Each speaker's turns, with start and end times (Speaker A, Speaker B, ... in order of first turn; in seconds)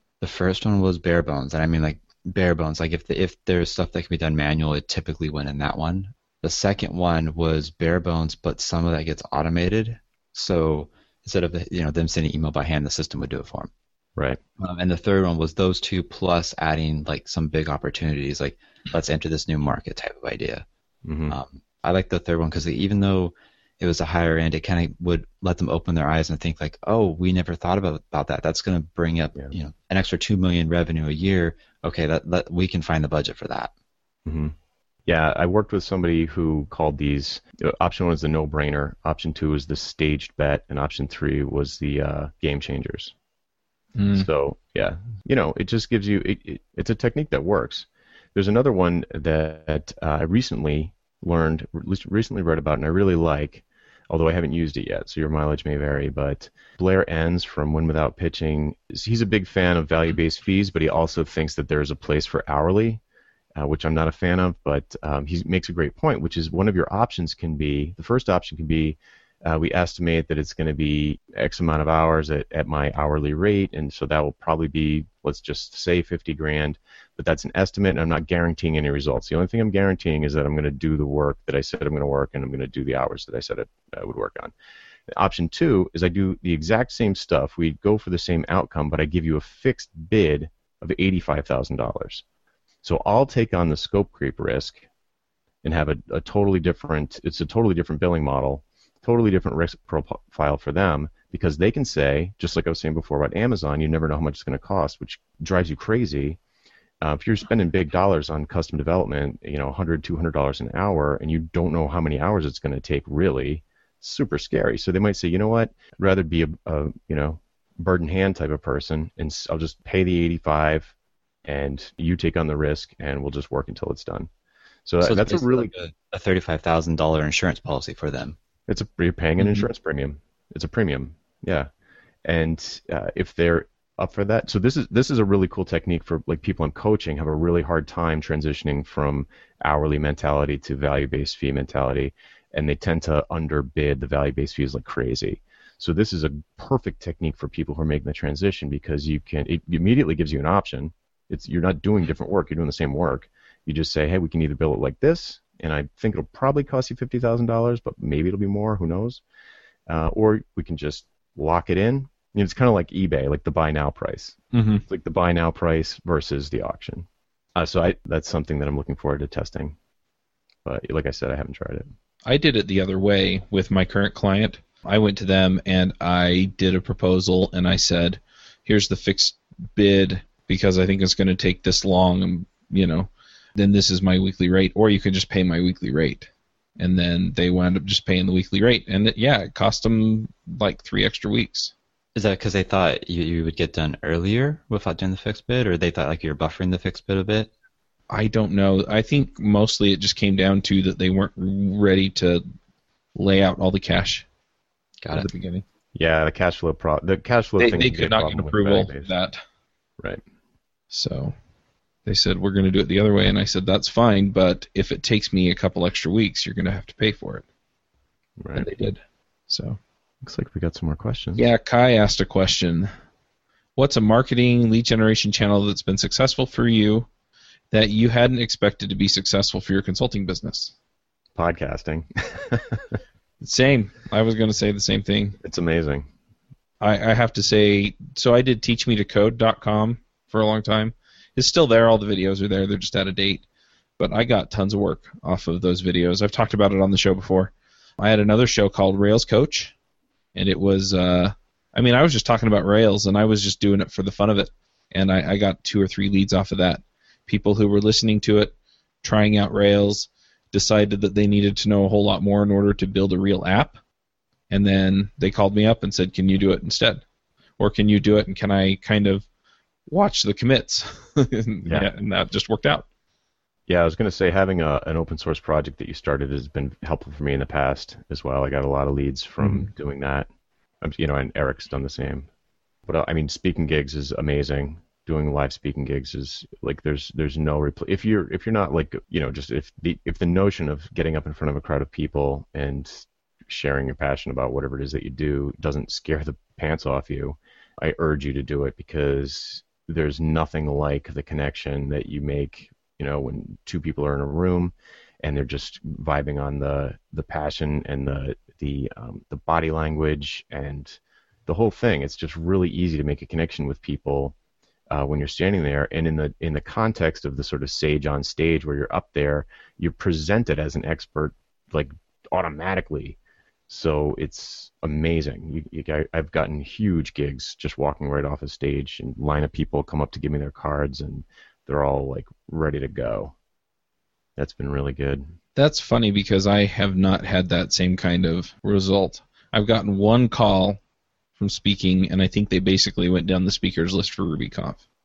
Speaker A: 0.2-13.7, 14.6-20.7, 21.3-33.7, 125.0-128.4, 192.2-197.5, 205.0-205.3
Speaker B: 21.1-21.4, 34.3-34.5, 35.1-43.1, 44.1-63.0, 63.6-84.5, 85.1-92.2, 92.8-94.8, 95.6-106.4, 107.0-120.9, 121.5-124.3, 124.9-125.7, 128.7-131.7, 132.2-159.2, 159.9-169.8, 170.7-171.9, 205.9-209.1, 218.4-218.7, 220.2-221.5, 231.4-232.8, 235.4-236.1, 273.7-280.3, 280.8-282.3, 282.9-314.4, 314.9-323.2, 323.7-333.3, 334.4-335.2
Speaker C: 44.0-44.3, 164.5-164.8, 172.3-191.7, 198.1-202.4, 203.2-204.3, 205.1-205.6, 207.6-209.4, 210.9-211.3, 212.1-217.4, 218.6-219.8, 221.4-222.9, 223.8-227.1, 227.7-230.7, 233.4-235.4, 236.8-243.4, 244.0-249.7, 250.3-263.8, 264.5-267.0, 267.6-269.3, 269.9-272.9, 279.4-279.7, 335.6-340.8, 341.4-344.8